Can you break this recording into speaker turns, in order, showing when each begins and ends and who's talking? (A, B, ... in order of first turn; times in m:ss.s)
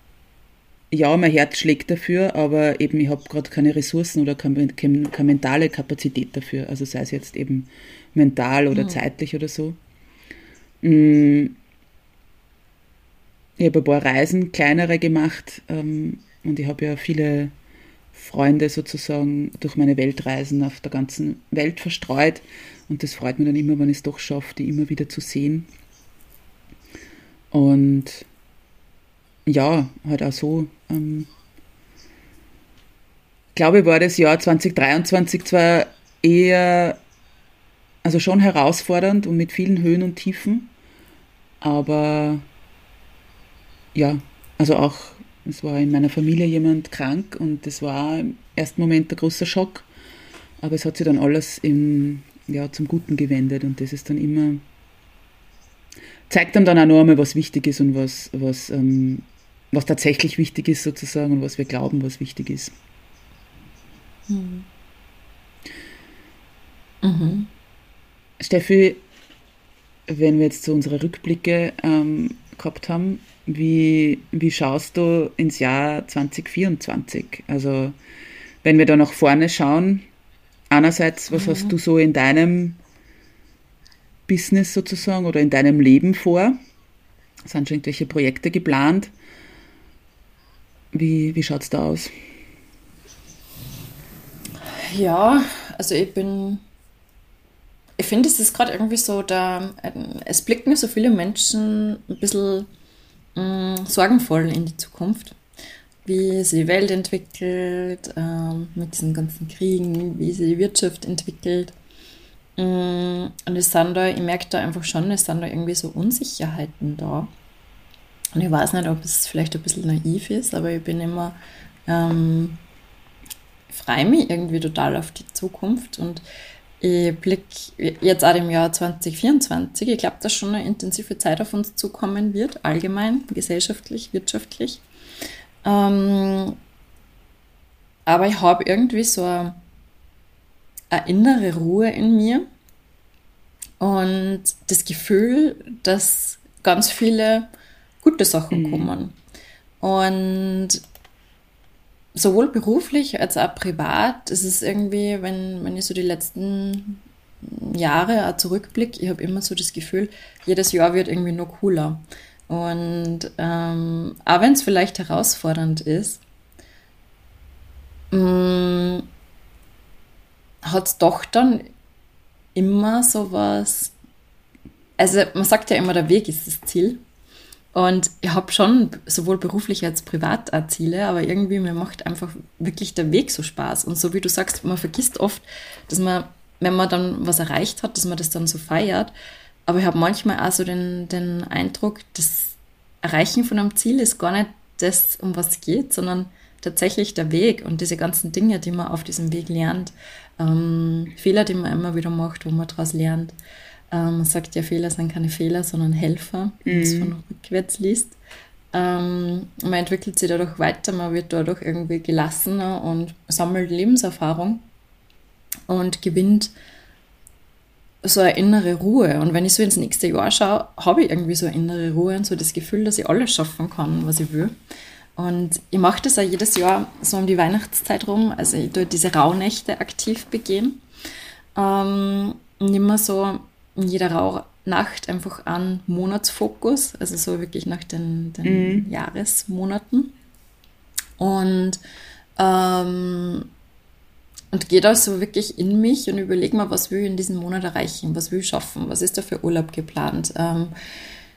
0:00.9-0:09.8 A
0:08.7-0:09.0 B
0:10.8-0:11.6 A
0:13.6-0:17.5 A
0:18.1-0:25.7 A
0:27.5-0:28.3 A
0:29.5-0:31.3 A
0:33.6-0:37.0 A
0:38.0-0:40.7 A
0:41.6-0:42.4 A
0:44.0-0:49.9 A
0:50.6-0:54.6 A
0:56.3-1:02.7 A
1:04.3-1:04.7 B
1:07.0-1:07.5 B
1:08.4-1:09.0 A
1:10.1-1:18.0 A
1:18.6-1:20.0 A
1:20.7-1:22.8 A
1:21.3-1:21.7 B
1:24.3-1:26.6 A
1:27.4-1:29.1 A
1:30.9-1:32.1 A
1:34.6-1:36.6 B
1:38.0-1:42.7 B
1:43.4-1:45.4 B
1:46.0-1:51.7 B
1:52.6-1:57.3 B
1:58.4-2:02.6 B
2:03.7-2:06.2 B
2:06.8-2:14.8 B
2:15.6-2:16.6 B
2:18.1-2:19.6 B
2:20.9-2:22.5 B
2:23.8-2:27.5 B
2:28.0-2:29.2 B
2:28.5-2:28.9 A
2:29.8-2:30.8 B
2:32.2-2:46.2 B
2:48.1-2:49.1 B
2:50.6-2:51.7 B
2:52.6-2:53.9 B
2:55.0-2:57.0 B
2:57.7-3:09.1 B
3:09.7-3:23.4 B
3:23.9-3:28.2 B
3:26.6-3:27.1 A
3:28.7-3:34.7 B
3:35.7-3:36.5 B
3:38.0-3:44.6 B
3:45.2-3:50.8 B
3:51.6-4:00.1 B
3:58.4-3:58.9 A
4:01.2-4:01.8 B
4:02.4-4:03.5 B
4:04.5-4:10.7 B